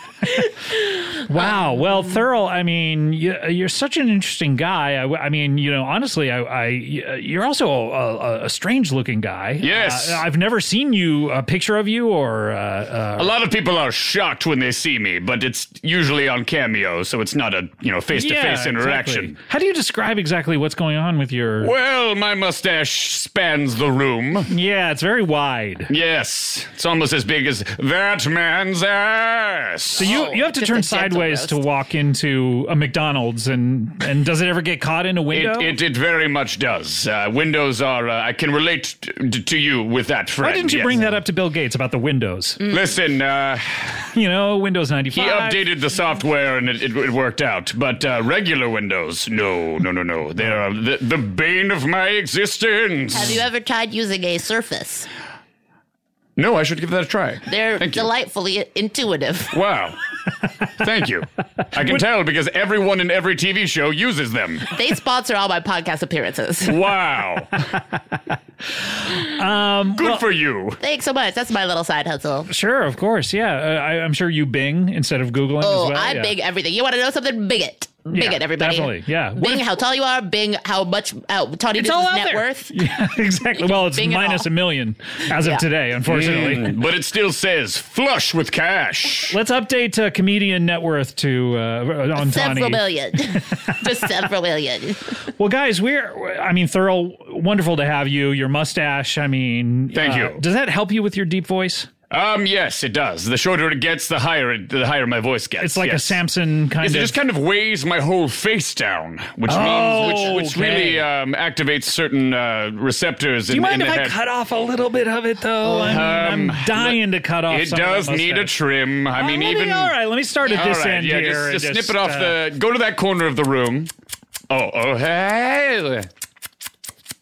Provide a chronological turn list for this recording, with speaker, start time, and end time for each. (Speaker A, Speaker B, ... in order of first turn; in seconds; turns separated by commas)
Speaker A: 1.2-13.3, Speaker B: 1.4-2.0, Speaker C: 9.6-10.2, Speaker C: 13.2-19.4, Speaker A: 18.1-21.7, Speaker C: 21.6-24.5, Speaker A: 24.5-25.9, Speaker C: 25.9-30.2, Speaker B: 29.9-31.6, Speaker A: 30.0-35.7, Speaker C: 35.3-41.1, Speaker A: 40.4-42.6, Speaker B: 42.6-42.9, Speaker C: 42.7-44.0, Speaker A: 44.1-45.6, Speaker C: 45.1-53.4, Speaker B: 53.1-55.1, Speaker C: 56.4-58.1, Speaker B: 57.5-59.5, Speaker C: 59.5-60.0, Speaker C: 60.8-64.7, Speaker B: 64.7-66.8, Speaker C: 66.6-67.6, Speaker A: 68.3-70.2, Speaker C: 70.0-70.8, Speaker B: 70.8-72.5, Speaker A: 72.5-76.3, Speaker B: 75.6-82.7, Speaker A: 78.1-79.6, Speaker A: 81.8-86.8, Speaker B: 83.6-84.5, Speaker B: 85.3-85.6, Speaker C: 86.0-89.4, Speaker A: 89.3-92.8, Speaker B: 92.2-95.1, Speaker A: 95.4-101.9, Speaker C: 99.9-100.4, Speaker C: 102.1-106.2, Speaker A: 105.6-107.2, Speaker C: 106.8-114.2, Speaker A: 109.5-111.0, Speaker A: 113.5-118.5, Speaker C: 115.6-123.9, Speaker A: 119.1-122.4, Speaker C: 124.5-126.1